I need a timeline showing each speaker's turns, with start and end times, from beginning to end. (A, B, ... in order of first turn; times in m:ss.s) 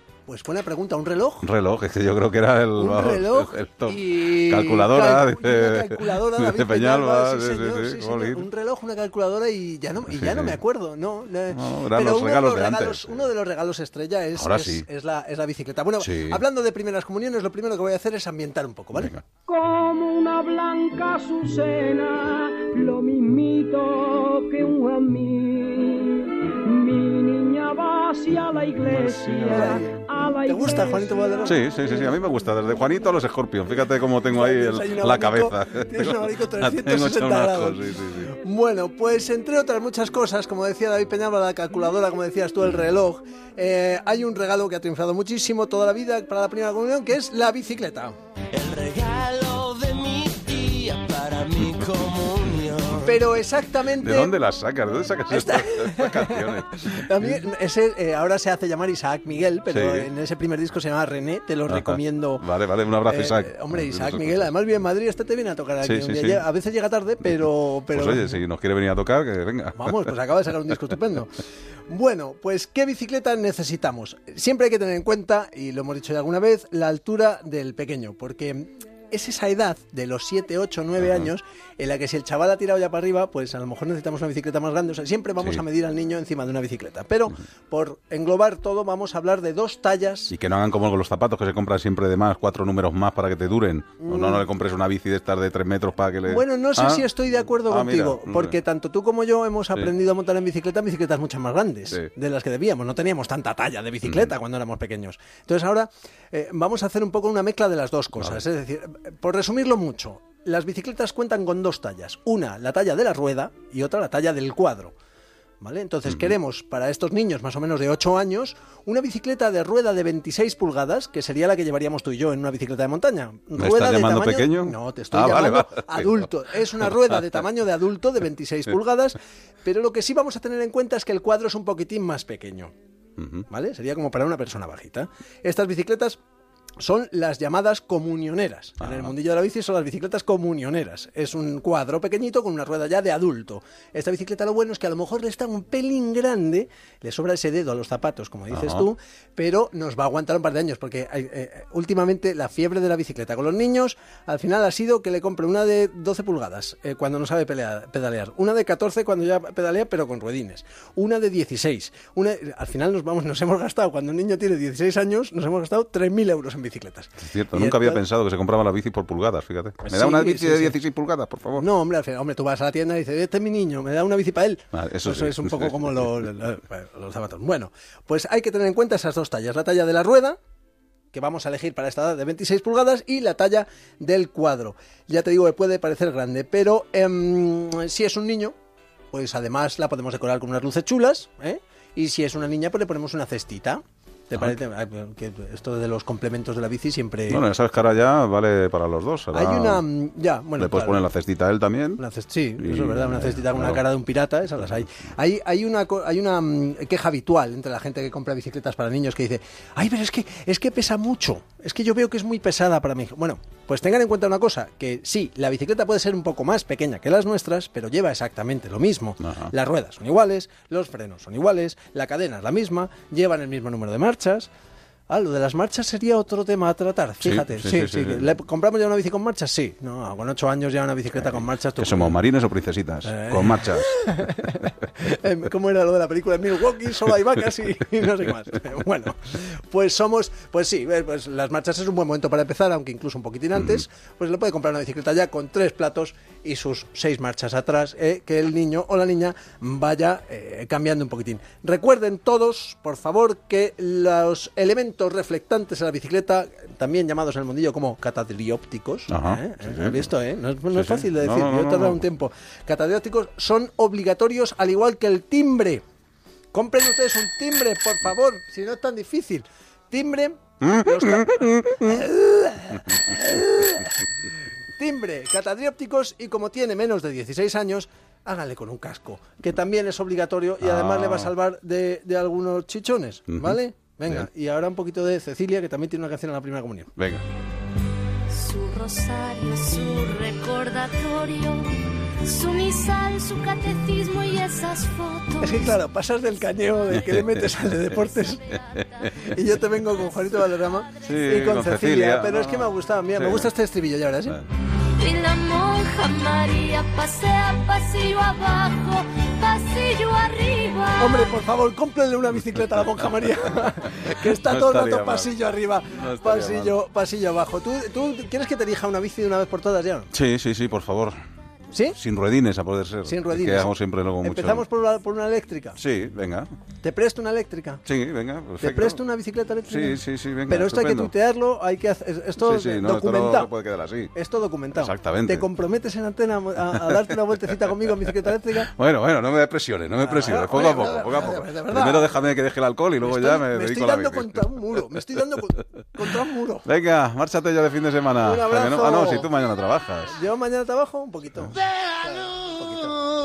0:00.3-0:01.5 A
0:01.4-0:08.5 B
0:02.8-0:19.2 A
0:10.0-0:10.6 B
0:11.5-0:13.3 B
0:14.4-0:14.8 B
0:16.0-0:16.4 B
0:18.9-0:19.2 B
0:19.5-0:31.2 C
0:28.9-0:29.4 B
0:29.3-0:31.6 A
0:31.4-0:38.3 B
0:34.3-0:48.2 A
0:48.5-0:53.1 D
0:52.9-0:54.4 A
0:53.9-0:57.4 B
0:55.3-1:02.5 A
0:59.7-1:00.1 B
1:01.7-1:04.5 B
1:03.0-1:08.4 A
1:05.8-1:06.4 B
1:07.9-1:10.1 B
1:09.8-1:11.4 A
1:11.9-1:30.3 A
1:21.0-1:21.3 B
1:30.3-1:38.6 B
1:34.0-1:34.4 A
1:36.2-1:54.9 A
1:44.0-1:44.3 B
1:55.6-2:12.7 A
2:03.6-2:06.3 B
2:13.2-2:13.4 B
2:13.5-2:16.2 A
2:16.8-2:48.0 A
2:18.8-2:19.1 B
2:28.5-2:28.8 B
2:47.2-2:51.7 B
2:49.8-2:50.8 A
2:51.6-3:00.4 A
2:54.7-2:56.1 B
3:01.1-3:08.5 A
3:09.1-3:17.4 A
3:17.3-3:19.8 B
3:19.3-3:21.0 A
3:20.6-3:22.0 B
3:22.0-3:44.5 A
3:22.6-3:23.8 B
3:39.2-3:39.5 B
3:45.1-3:52.1 A
3:47.2-3:48.3 B
3:51.8-3:53.9 B
3:53.0-4:25.8 A
4:19.1-4:20.1 B
4:20.7-4:22.0 B
4:26.5-4:34.1 A
4:30.6-4:32.0 B
4:34.8-4:46.9 A
4:40.6-4:41.3 B
4:43.3-4:44.3 B
4:47.0-4:47.2 B
4:48.3-4:55.7 E
4:55.4-4:58.6 A
4:56.9-4:57.2 B
4:58.7-4:59.1 B
4:59.2-5:04.4 A
5:01.0-5:03.5 B
5:05.0-5:11.3 E
5:11.0-5:20.1 A
5:14.1-5:15.3 B
5:15.9-5:16.8 B
5:20.1-5:21.2 B
5:21.7-5:22.0 A
5:21.9-5:24.6 B
5:23.0-5:23.7 A
5:24.2-5:25.8 A
5:25.8-5:26.5 B
5:26.8-5:27.8 A
5:27.8-5:29.0 B
5:28.6-5:33.5 A
5:29.7-5:31.1 B
5:32.4-5:34.1 B
5:34.1-5:38.7 A
5:34.7-5:35.5 B
5:36.7-5:37.1 B
5:38.6-5:44.9 B
5:40.0-5:42.2 A
5:43.0-5:46.7 A
5:46.6-5:50.2 B
5:48.2-5:49.3 A
5:50.1-5:53.0 A